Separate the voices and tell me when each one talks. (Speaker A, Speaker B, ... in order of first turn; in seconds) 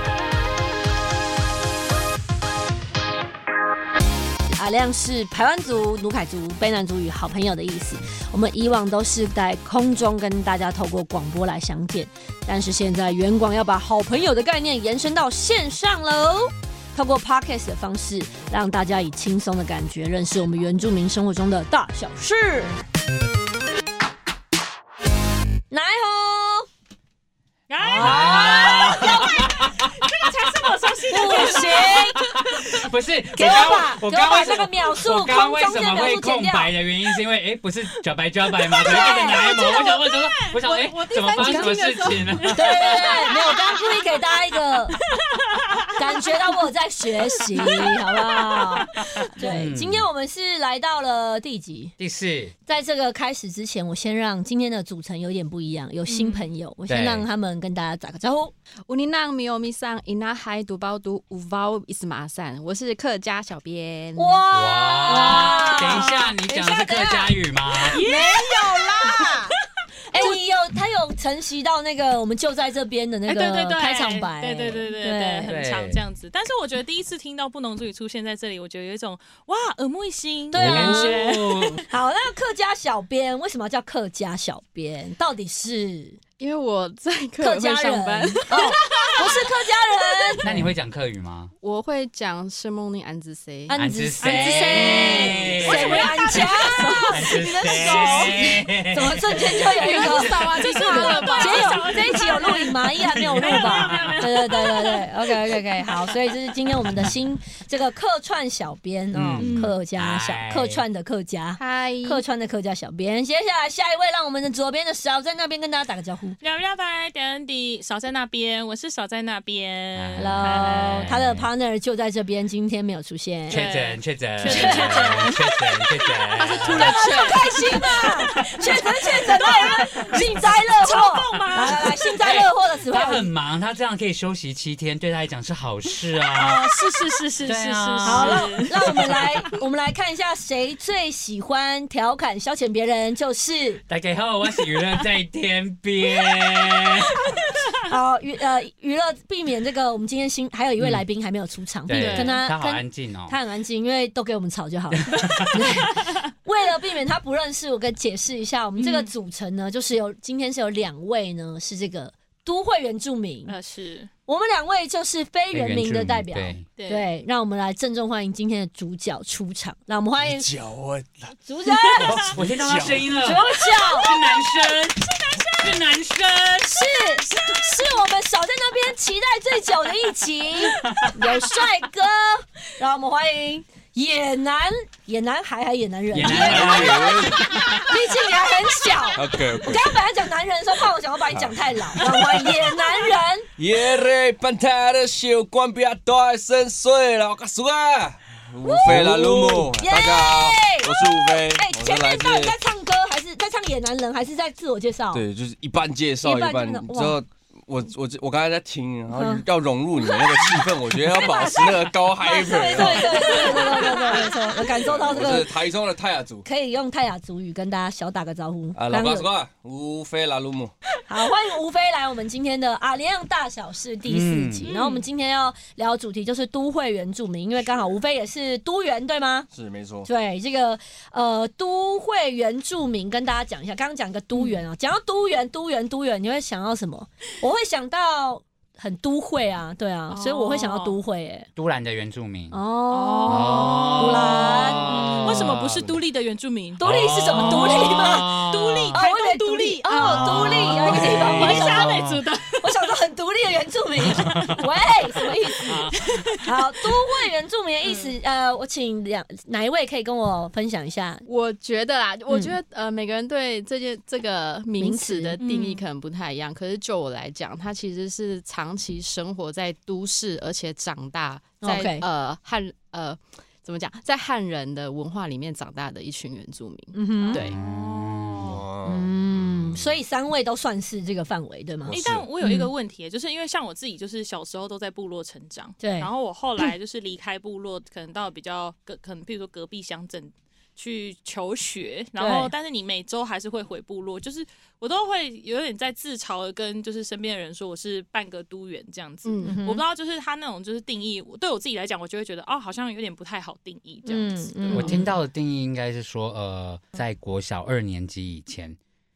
Speaker A: 4.5-22.8, 25.7-26.7, 27.8-29.5, 31.1-32.2, 33.4-36.8, 38.8-39.4, 41.4-41.9, 42.5-45.0, 46.0-52.0, 52.7-58.5, 64.2-66.1, 70.2-75.6, 80.5-81.3, 81.8-86.2, 87.4-90.5, 93.7-116.4, 120.2-123.7, 126.8-133.3, 138.0-143.8, 147.8-163.6, 164.3-170.5, 171.4-172.4, 173.2-174.1, 176.6-193.5, 198.6-205.2, 206.2-207.2, 209.1-209.4, 211.2-211.6, 212.2-215.5, 216.4-219.3, 221.1-229.5, 230.1-241.5, 242.5-244.9, 246.8-252.1, 252.6-255.9, 256.4-261.2, 262.3-262.6, 264.8-265.4, 271.6-272.1, 276.9-277.4, 278.9-282.7, 285.8-286.1, 292.2-292.5, 299.5-299.8, 304.1-305.1
Speaker B: 27.7-32.8, 38.6-40.6, 42.5-43.9, 45.2-45.9, 47.5-48.0, 48.5-49.0, 56.1-56.5, 65.1-66.3, 67.9-69.3, 73.3-81.8, 94.2-98.6, 99.9-106.4, 109.4-109.7, 116.4-120.9, 123.5-132.2, 136.3-139.5, 151.9-152.4, 158.8-159.1, 163.5-164.1, 166.8-167.1, 171.8-172.2, 173.7-175.8, 187.5-187.8, 212.8-214.6, 224.7-225.0, 240.1-241.0, 242.9-252.9, 254.2-254.5, 255.6-257.1, 257.8-258.2, 265.4-265.8, 277.2-278.6, 281.9-304.9
Speaker C: 27.8-42.8, 48.9-50.1, 52.0-52.5, 56.9-57.3, 64.5-68.0, 75.5-76.0, 80.5-81.8, 90.4-91.5, 93.7-96.5, 97.1-100.5, 103.2-104.3, 109.1-110.8, 120.0-121.5, 123.5-127.1, 130.1-130.5, 131.4-136.7, 137.4-139.2, 143.9-147.2, 150.8-151.0, 151.9-153.4, 154.9-155.7, 165.5-166.7, 172.0-176.9, 180.8-181.3, 186.1-188.0, 224.1-224.7, 241.6-242.6, 243.3-245.9, 246.8-249.0, 250.0-252.3, 254.0-254.7, 255.6-256.4, 277.5-278.6, 304.7-308.8
Speaker D: 40.6-43.4, 58.9-64.4, 65.6-67.3, 67.9-69.6, 70.1-70.4, 86.4-89.5, 91.6-93.8, 97.7-98.1, 99.6-102.0, 111.6-112.2, 124.5-125.4, 126.4-128.1, 261.3-277.6, 299.2-299.6
Speaker E: 170.2-171.4, 172.4-173.1, 186.2-187.5, 189.2-190.0, 191.3-191.6, 193.6-202.6, 205.1-213.6, 214.8-216.5, 218.8-220.7, 229.5-230.1, 278.4-280.0, 281.9-282.3